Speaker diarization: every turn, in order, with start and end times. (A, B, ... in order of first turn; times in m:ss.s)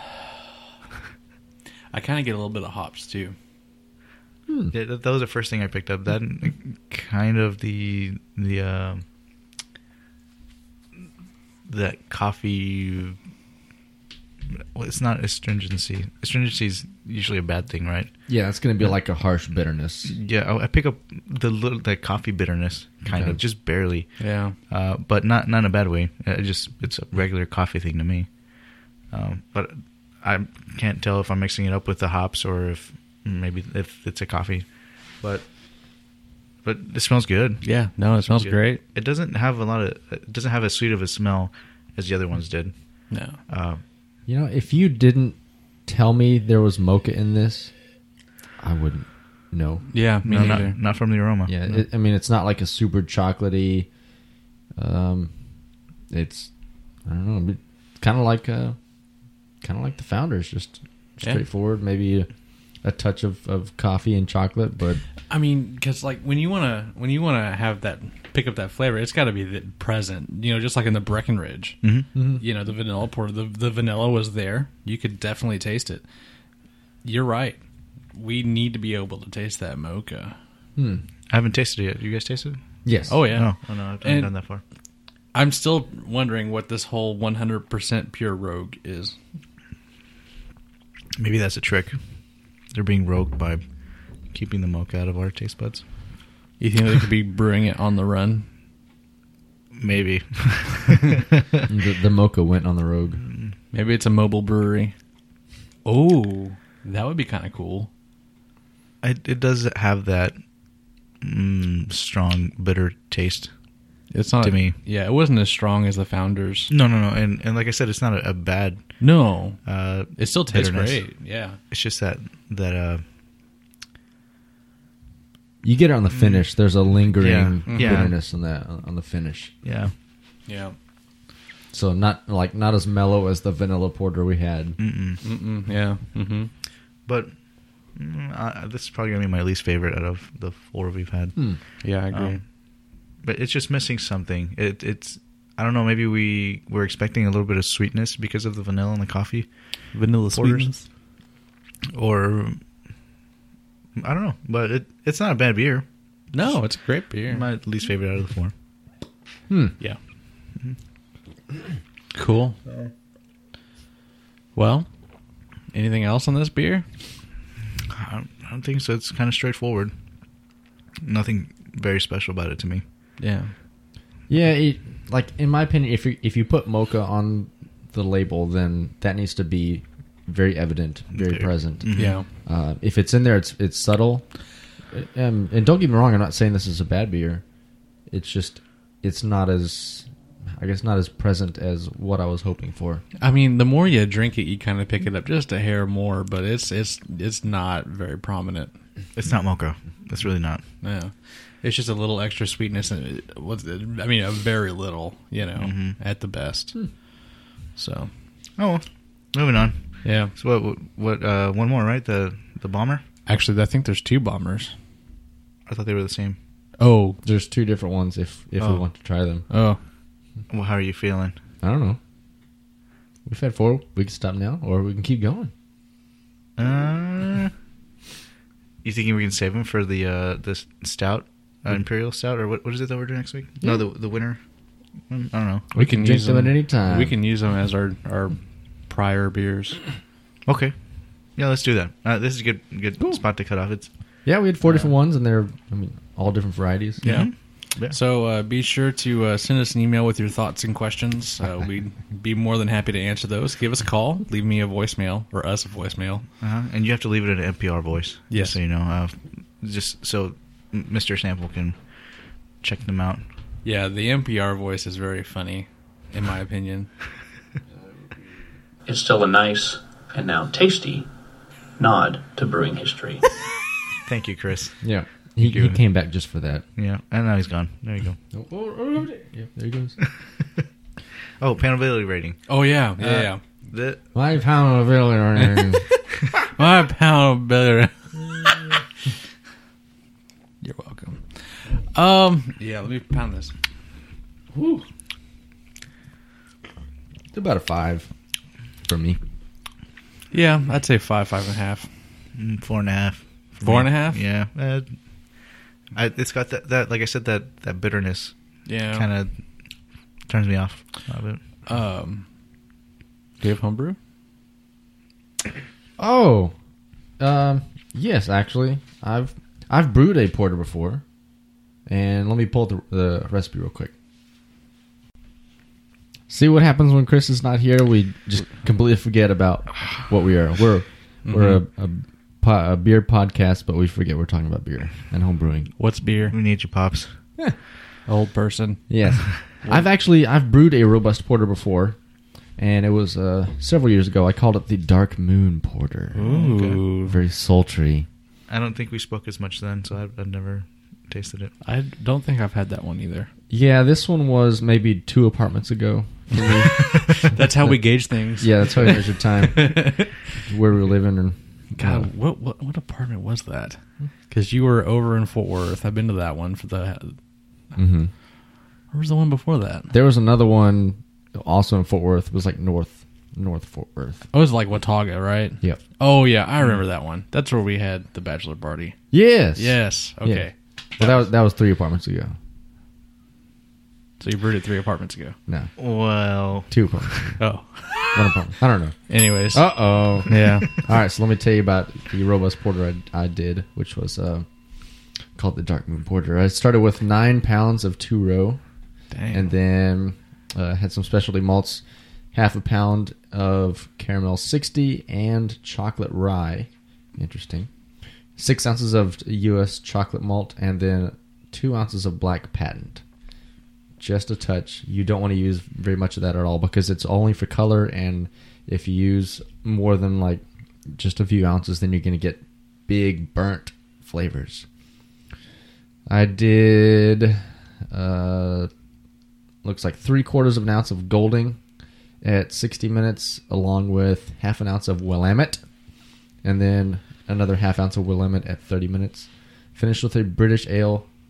0:01.9-0:03.3 A
0:04.5-0:04.7 B
0:04.7-0:09.0 C
0:11.7-0:13.2 C
0:14.6-0:18.1 C
0:18.3-0:20.1 B
0:20.0-0:28.4 C
0:23.1-0:23.4 B
0:24.2-0:24.6 A
0:29.1-0:35.5 C
0:36.6-0:37.6 C
0:37.6-0:38.8 A
0:38.2-0:42.7 C
0:43.1-0:43.4 A
0:43.5-0:43.8 C
0:44.3-0:47.7 B
0:48.6-0:50.6 B
0:49.9-0:50.8 A
0:50.2-0:51.8 C
0:51.5-0:53.9 B
0:54.8-0:55.3 B
0:56.1-0:56.5 B
0:57.0-0:58.8 B
0:59.6-1:02.3 B
1:02.8-1:05.0 B
1:05.3-1:11.8 A
1:12.1-1:12.4 B
1:12.4-1:16.0 A
1:17.0-1:17.6 A
1:18.1-1:20.3 A
1:20.8-1:21.0 B
1:21.3-1:22.6 C
1:22.8-1:23.2 B
1:23.1-1:24.3 A
1:23.3-1:24.6 C
1:25.3-1:29.1 A
1:31.2-1:32.0 C
1:32.7-1:33.6 C
1:34.2-1:35.8 C
1:36.6-1:38.4 A
1:39.8-1:41.6 C
1:41.7-1:43.2 B
1:43.2-1:43.5 C
1:43.7-1:44.9 A
1:45.8-1:47.9 A
1:49.0-1:50.4 C
1:51.2-1:53.5 C
1:54.1-1:56.7 A
1:54.4-1:54.8 C
1:56.7-1:58.9 C
1:59.0-1:59.6 A
1:59.6-2:01.0 C
2:00.1-2:01.6 A
2:01.7-2:03.0 C
2:05.6-2:09.5 B
2:06.1-2:06.4 C
2:07.1-2:08.1 C
2:07.7-2:08.1 A
2:09.6-2:09.9 C
2:10.5-2:10.8 A
2:11.7-2:14.8 B
2:14.8-2:15.2 C
2:15.2-2:16.5 A
2:17.1-2:21.4 C
2:21.8-2:22.4 A
2:22.1-2:22.4 C
2:23.2-2:30.7 C
2:29.9-2:30.8 A
2:31.9-2:32.6 C
2:34.0-2:35.9 C
2:36.3-2:37.5 A
2:37.3-2:38.5 C
2:39.5-2:39.7 B
2:42.1-2:42.6 A
2:42.6-2:42.9 C
2:44.6-2:44.9 A
2:45.7-2:46.8 A
2:47.9-2:49.9 C
2:51.0-2:52.8 C
2:53.2-2:53.5 A
2:54.3-3:01.9 B
3:01.1-3:02.2 C
3:01.9-3:02.2 A
3:02.4-3:04.2 B
3:04.9-3:07.4 B
3:08.1-3:13.0 B
3:13.2-3:18.7 A
3:19.2-3:20.6 C
3:20.8-3:26.9 A
3:25.6-3:26.0 C
3:27.8-3:28.1 A
3:28.6-3:33.0 C
3:30.0-3:30.3 A
3:33.2-3:34.7 A
3:35.7-3:36.4 C
3:36.8-3:37.2 A
3:37.2-3:39.4 B
3:38.6-3:38.8 C
3:39.5-3:39.8 A
3:40.5-3:41.3 C
3:41.6-3:42.0 B
3:43.2-3:45.5 B
3:46.6-3:47.5 C
3:48.8-3:54.4 C
3:55.1-3:55.6 C
3:55.7-3:57.1 B
3:55.7-3:59.8 A
4:00.4-4:00.7 C
4:01.3-4:03.9 C
4:04.2-4:07.0 B
4:07.0-4:08.0 C
4:07.0-4:16.2 A
4:16.4-4:21.8 C
4:18.3-4:18.6 A
4:22.6-4:23.2 C
4:23.6-4:26.9 A
4:28.9-4:31.1 D
4:31.8-4:33.2 D
4:34.0-4:34.8 C
4:34.8-4:36.6 B
4:35.4-4:35.8 C
4:36.8-4:38.2 C
4:38.3-4:40.0 B
4:41.4-4:42.4 C
4:42.5-4:43.4 A
4:43.0-4:44.0 C
4:44.1-4:45.8 B
4:45.4-4:45.7 A
4:46.4-4:48.5 A
4:50.6-4:53.5 A
4:54.5-4:54.8 B
4:57.3-4:58.1 B
4:58.9-4:59.2 B
5:00.3-5:01.9 A
5:02.4-5:05.0 C
5:03.6-5:04.2 A
5:05.9-5:08.3 C
5:08.6-5:09.1 A
5:08.9-5:09.3 C
5:10.3-5:11.4 C
5:11.6-5:12.2 A
5:13.4-5:14.0 A
5:16.0-5:16.5 B
5:17.2-5:21.0 B
5:21.9-5:23.9 B
5:26.3-5:35.7 B
5:31.2-5:31.6 A
5:35.8-5:36.3 A
5:36.3-5:37.1 C
5:38.0-5:38.8 A
5:38.9-5:42.0 B
5:39.5-5:39.9 A
5:42.6-5:46.3 B
5:46.1-5:47.2 A
5:46.2-5:46.8 C
5:47.0-5:48.1 B
5:48.5-5:51.5 C
5:51.6-5:53.3 A
5:53.5-5:57.8 B
5:56.3-6:00.2 A
5:58.4-6:02.1 B
6:01.8-6:03.8 A
6:04.3-6:07.2 A
6:07.8-6:08.1 B
6:08.9-6:09.9 A
6:09.9-6:14.3 B
6:14.3-6:19.0 A
6:19.1-6:20.4 B
6:19.6-6:21.1 A
6:21.0-6:22.4 B
6:24.2-6:25.4 A
6:25.8-6:26.7 C
6:26.7-6:27.4 B
6:27.4-6:28.3 A
6:28.0-6:29.0 B
6:29.1-6:30.9 A
6:29.5-6:34.4 B
6:35.4-6:38.6 B
6:39.1-6:39.5 A
6:39.3-6:47.7 B
6:48.4-6:53.0 B
6:54.0-7:04.6 B
7:06.1-7:08.7 B
7:09.6-7:11.6 B
7:12.2-7:15.6 B
7:16.4-7:21.1 B